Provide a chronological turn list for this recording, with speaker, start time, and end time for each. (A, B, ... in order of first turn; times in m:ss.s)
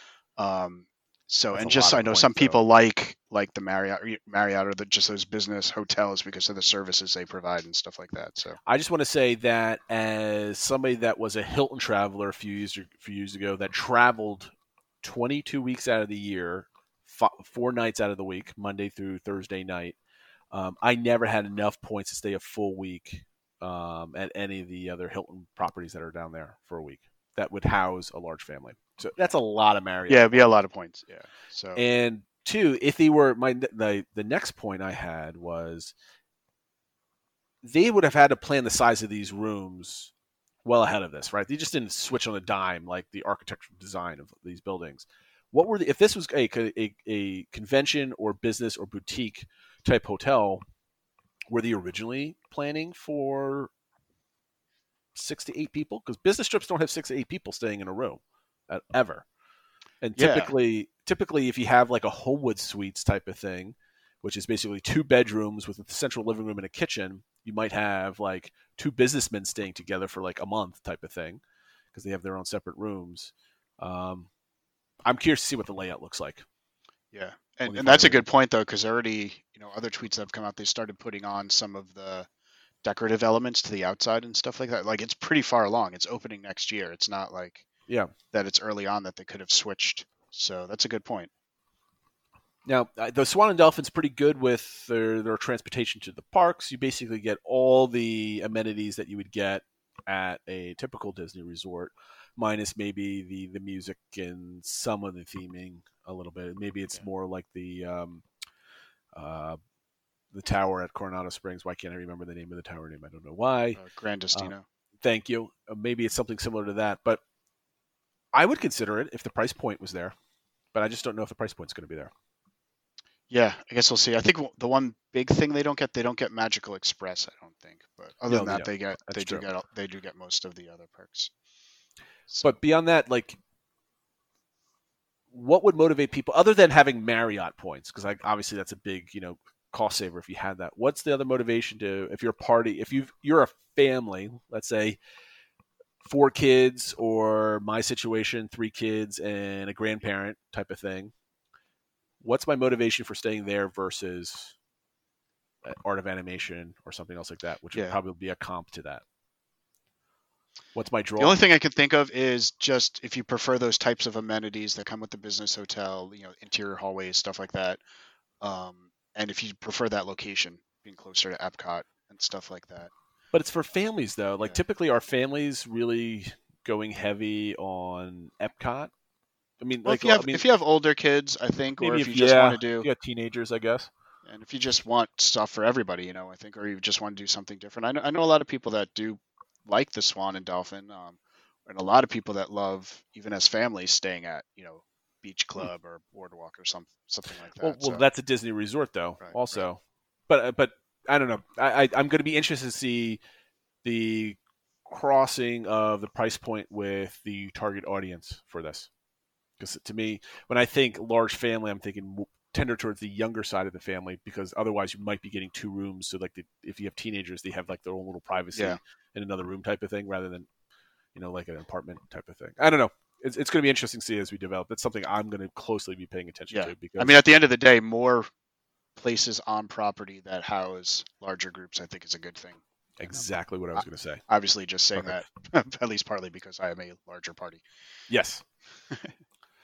0:00.4-0:08.6 A
0:01.5-0:02.6 B
0:08.6-0:14.5 B
0:15.0-0:20.0 B
0:20.5-0:30.4 B
0:30.1-0:31.8 A
0:31.8-0:35.9 B
0:37.6-0:40.1 B
0:40.6-0:50.6 B
0:51.5-0:53.7 B
0:55.1-0:59.2 B
1:00.0-1:11.4 B
1:00.2-1:00.5 A
1:11.9-1:14.3 B
1:15.0-1:16.4 B
1:17.1-1:22.3 A
1:17.7-1:18.2 B
1:22.8-1:27.7 A
1:27.9-1:28.1 B
1:28.3-1:31.3 A
1:32.6-1:48.2 B
1:49.1-1:49.6 B
1:50.3-1:53.8 B
1:53.8-1:54.6 A
1:54.3-1:57.2 B
1:58.3-2:00.1 B
2:00.7-2:02.1 B
2:03.3-2:11.3 A
2:08.3-2:09.4 B
2:12.3-2:12.6 A
2:12.4-2:13.4 B
2:15.3-2:25.0 B
2:26.0-2:31.1 B
2:32.2-2:34.5 B
2:35.6-2:39.0 B
2:40.7-2:41.4 B
2:41.2-2:47.8 A
2:48.4-2:52.9 A
2:53.3-2:58.9 B
2:59.6-3:00.4 B
2:59.8-3:02.9 A
3:01.8-3:03.9 B
3:04.2-3:18.0 A
3:17.6-3:23.2 B
3:19.2-3:19.6 A
3:23.8-3:28.9 B
3:29.6-3:40.5 B
3:38.5-3:38.8 A
3:41.1-3:47.2 B
3:46.5-3:48.3 A
3:49.0-3:57.6 A
3:53.0-3:54.2 B
3:54.9-3:55.2 B
3:58.1-3:58.4 B